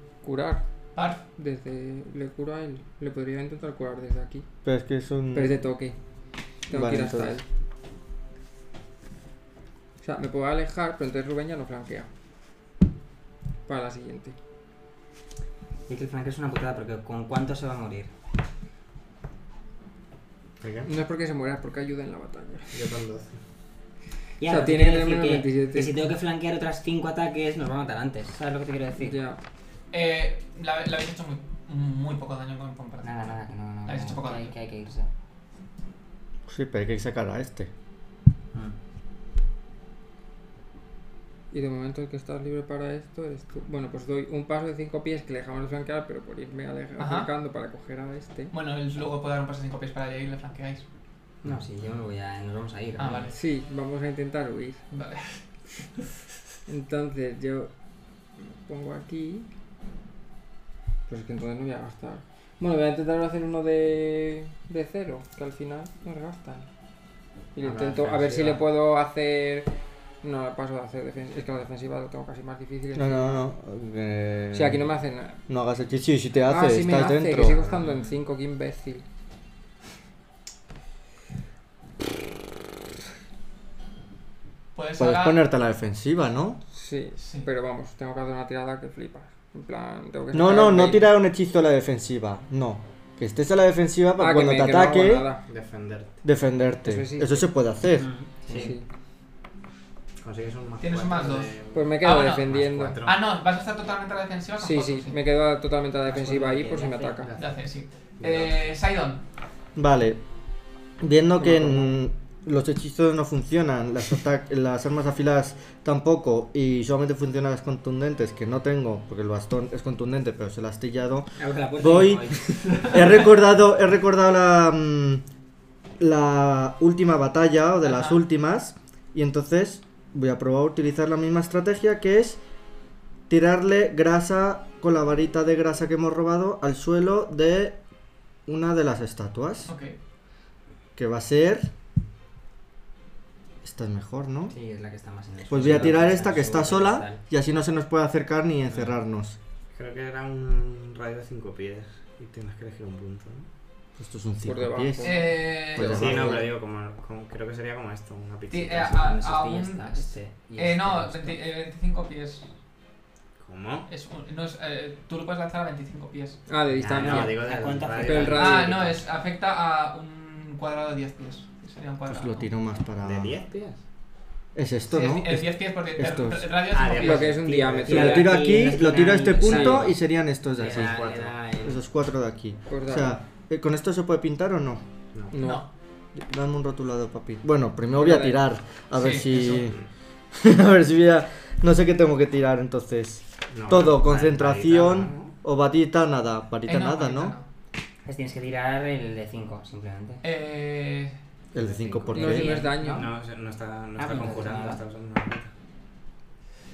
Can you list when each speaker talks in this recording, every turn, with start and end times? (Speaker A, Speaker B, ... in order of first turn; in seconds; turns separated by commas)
Speaker A: 0.2-0.6, Speaker B: 0.9-1.2, Speaker A: 1.4-4.5, Speaker C: 4.6-5.6, Speaker A: 5.3-6.0, Speaker A: 6.7-7.4, Speaker C: 6.7-7.4, Speaker A: 10.0-12.1, Speaker A: 13.7-14.4, Speaker D: 15.9-18.1, Speaker E: 20.6-20.9, Speaker A: 20.8-22.8, Speaker E: 22.7-23.4, Speaker D: 24.4-29.2, Speaker A: 24.4-26.1, Speaker A: 29.0-29.4, Speaker B: 29.9-34.5, Speaker D: 33.0-35.1, Speaker C: 36.5-37.7, Speaker A: 41.5-48.5, Speaker B: 47.0-47.3, Speaker B: 48.5-50.8, Speaker D: 51.4-53.3, Speaker B: 53.0-53.3, Speaker A: 53.3-54.8, Speaker B: 54.9-55.4, Speaker A: 56.7-57.7, Speaker A: 58.4-59.5, Speaker A: 61.1-66.7, Speaker A: 67.5-69.7, Speaker E: 67.6-68.6, Speaker A: 70.2-73.5, Speaker C: 73.0-74.8, Speaker A: 74.5-75.4, Speaker C: 75.5-77.6, Speaker A: 76.5-79.0, Speaker E: 77.5-78.1, Speaker B: 84.7-85.4, Speaker C: 85.0-86.6, Speaker A: 86.7-91.1, Speaker B: 87.2-87.5, Speaker C: 90.3-95.3, Speaker A: 94.2-95.4, Speaker E: 95.5-96.2, Speaker C: 96.2-98.1, Speaker A: 96.8-97.5, Speaker D: 98.0-98.7, Speaker E: 98.5-98.7, Speaker A: 98.5-98.8, Speaker E: 100.2-103.2, Speaker B: 100.8-102.5, Speaker A: 101.7-103.0, Speaker B: 103.0-105.2, Speaker A: 104.6-107.3, Speaker D: 106.0-107.3, Speaker E: 107.2-107.5, Speaker B: 107.4-109.2, Speaker E: 108.2-108.6, Speaker C: 109.7-110.2, Speaker C: 111.0-125.2, Speaker A: 111.4-111.9, Speaker D: 121.4-123.0, Speaker B: 122.7-123.1, Speaker C: 126.0-132.4, Speaker B: 127.8-128.2, Speaker C: 133.3-137.8, Speaker C: 138.4-139.7, Speaker B: 139.7-139.9, Speaker C: 140.9-141.7, Speaker C: 143.6-144.5, Speaker D: 144.5-147.2, Speaker C: 145.5-149.4, Speaker E: 149.7-153.4, Speaker C: 154.0-156.5, Speaker A: 154.4-155.3, Speaker B: 155.0-156.3, Speaker E: 155.7-159.0, Speaker B: 158.5-162.4, Speaker D: 158.9-161.4, Speaker E: 163.4-163.9, Speaker B: 163.9-166.4, Speaker A: 166.5-167.4, Speaker E: 166.8-168.8, Speaker D: 166.8-168.8, Speaker A: 168.0-168.8, Speaker B: 168.3-172.5, Speaker C: 172.1-173.3, Speaker E: 173.0-173.8, Speaker C: 174.6-176.5, Speaker B: 174.9-177.4, Speaker E: 176.7-178.2, Speaker A: 176.9-178.4, Speaker D: 177.4-180.0, Speaker C: 177.9-181.1, Speaker A: 179.4-179.8, Speaker D: 180.6-181.8, Speaker E: 180.6-181.4, Speaker C: 181.6-184.8, Speaker A: 182.7-183.2, Speaker A: 185.3-185.6, Speaker B: 185.4-185.7, Speaker C: 186.1-189.8, Speaker A: 187.9-188.4, Speaker B: 188.9-189.7, Speaker C: 190.3-197.3, Speaker E: 193.5-195.3, Speaker B: 196.7-197.4, Speaker D: 198.1-200.2, Speaker B: 200.2-201.2, Speaker C: 201.5-202.6, Speaker E: 201.6-205.5, Speaker A: 202.1-203.1, Speaker D: 202.2-203.1, Speaker D: 203.9-204.8